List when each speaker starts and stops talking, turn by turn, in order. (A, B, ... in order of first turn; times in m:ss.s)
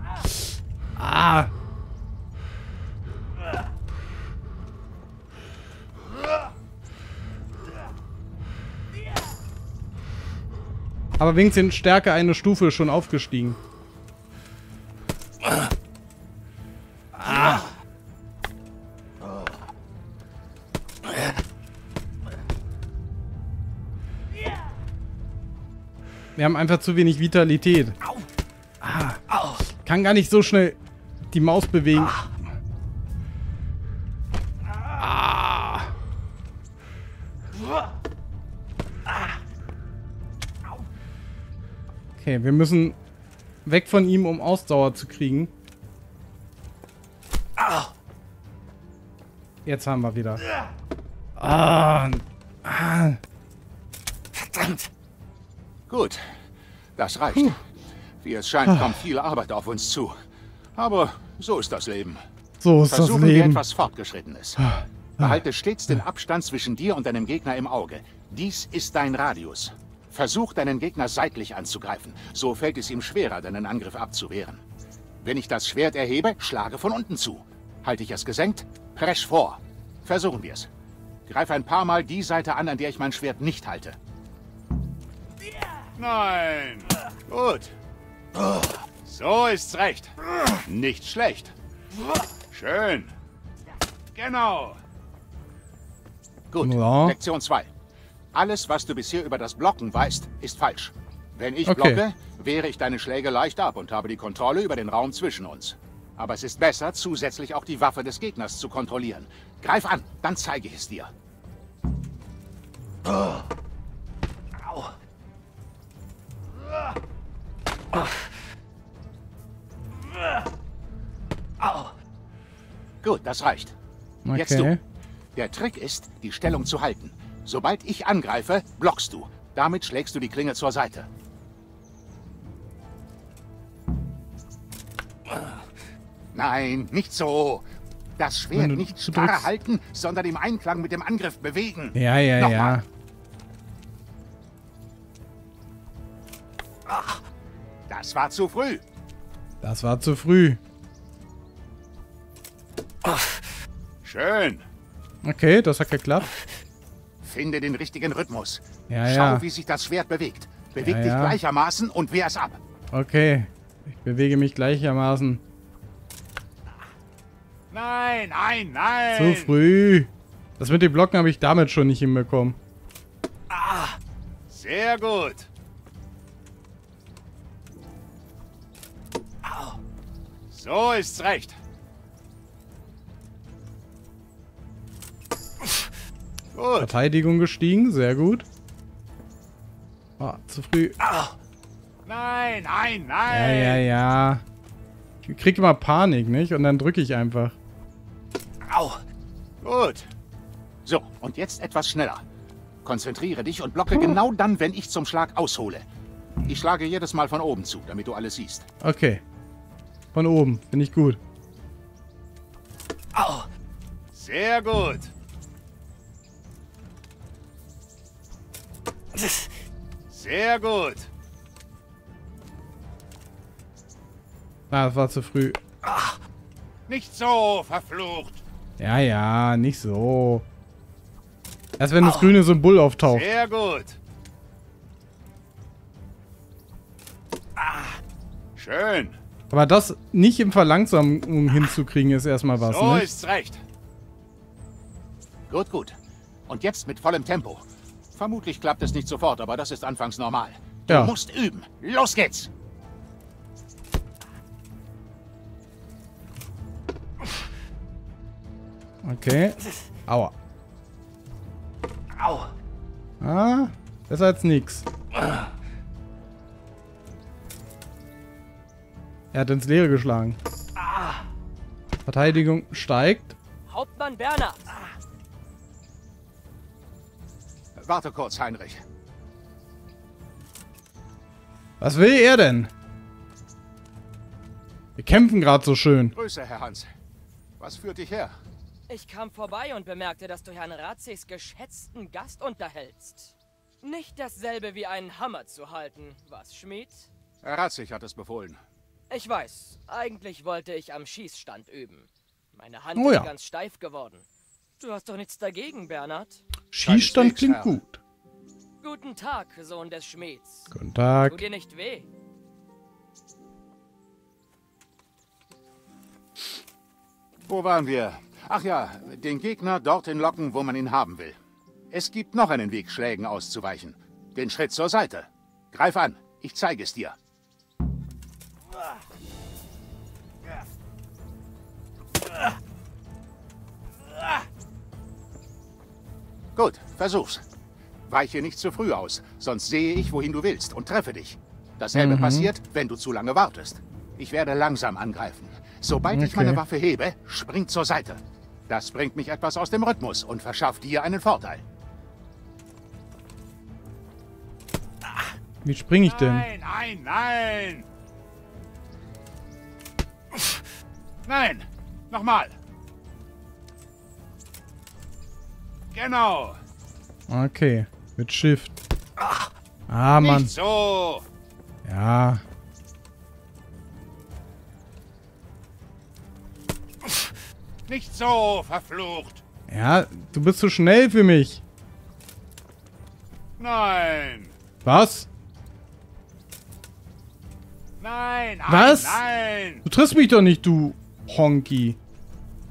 0:01.0-0:01.5 A
0:11.2-0:13.6 A
0:17.2-0:17.7 A
0:26.4-0:28.0 A
0:28.8-0:30.8 A
0:31.3-0:32.3 A
0:34.9-0:35.9 A
0:42.2-0:43.0 A
0:43.6-0:45.5 A
0:49.6-0:50.4 A
0:51.4-0:53.2 A
0:55.9-0:56.2 B
0:57.0-0:57.6 B
0:58.2-1:00.2 B
0:58.7-0:59.0 A
1:00.8-1:02.2 B
1:02.6-1:03.6 A
1:02.9-1:04.7 B
1:04.6-1:05.4 A
1:05.2-1:14.6 B
1:15.2-1:20.7 B
1:21.3-1:24.0 B
1:26.0-1:27.8 B
1:29.0-1:31.5 B
1:32.5-1:33.1 B
1:34.2-1:34.8 B
1:36.5-1:37.7 B
1:36.6-1:37.2 A
1:38.3-1:51.1 B
1:41.6-1:42.0 A
2:03.0-2:03.8 B
2:04.3-2:04.8 A
2:04.3-2:04.7 B
2:05.4-2:11.1 B
2:16.3-2:22.8 B
2:18.5-2:19.5 A
2:22.0-2:22.9 A
2:27.9-2:28.8 B
2:29.6-2:30.6 A
2:34.0-2:34.7 B
2:35.2-2:36.3 A
2:37.2-2:42.6 B
2:38.9-2:39.5 A
2:40.8-2:41.4 A
2:42.9-2:45.4 A
2:47.7-2:49.5 B
2:49.1-2:52.6 A
2:53.5-2:54.0 B
2:54.5-2:55.5 B
3:00.5-3:01.6 B
3:06.5-3:06.9 B
3:06.8-3:08.5 A
3:10.2-3:11.0 A
3:11.0-3:11.4 B
3:12.1-3:13.8 B
3:13.3-3:14.4 A
3:15.2-3:17.6 A
3:18.7-3:19.0 B
3:19.6-3:20.1 B
3:20.8-3:22.2 B
3:22.8-3:25.9 B
3:26.4-3:28.7 B
3:28.8-3:29.2 A
3:30.1-3:31.2 A
3:33.2-3:33.4 B
3:34.1-3:35.1 B
3:40.1-3:41.1 B
3:44.7-3:45.6 A
3:46.9-3:48.4 B
3:48.8-3:50.4 A
3:51.8-3:53.3 A
3:53.0-3:54.0 B
3:57.6-3:58.0 B
3:58.6-3:59.2 B
3:59.5-4:03.1 A
4:02.6-4:03.6 B
4:05.5-4:06.0 B
4:06.5-4:12.5 B
4:10.9-4:11.1 A
4:19.0-4:20.3 A
4:23.2-4:24.9 A
4:29.3-4:30.4 A
4:32.1-4:33.4 A
4:33.7-4:34.8 C
4:37.8-4:38.8 B
4:41.8-4:42.7 A
4:45.0-4:46.2 A
4:46.1-4:46.9 B
4:47.6-4:48.4 B
4:48.9-4:57.1 C
4:57.4-4:58.6 B
4:59.1-5:04.2 C
5:03.0-5:03.3 A
5:04.8-5:06.4 C
5:06.7-5:08.0 A
5:06.8-5:07.8 B
5:08.8-5:10.7 C
5:10.7-5:11.4 A
5:11.3-5:12.1 C
5:17.5-5:21.4 B
5:21.9-5:27.2 B
5:36.6-5:37.4 B
5:38.1-5:51.6 B
5:42.0-5:42.5 A
5:46.1-5:46.6 A
5:55.6-5:56.5 A
5:56.0-5:57.9 B
6:01.3-6:02.6 B
6:05.9-6:06.6 B
6:07.3-6:08.8 A
6:09.2-6:09.5 B
6:09.9-6:10.5 A
6:10.2-6:11.3 B
6:11.8-6:12.4 A
6:17.9-6:19.4 B
6:19.7-6:21.6 A
6:23.6-6:24.5 B
6:24.8-6:25.3 A
6:28.0-6:29.8 B
6:28.7-6:29.2 A
6:29.8-6:32.0 A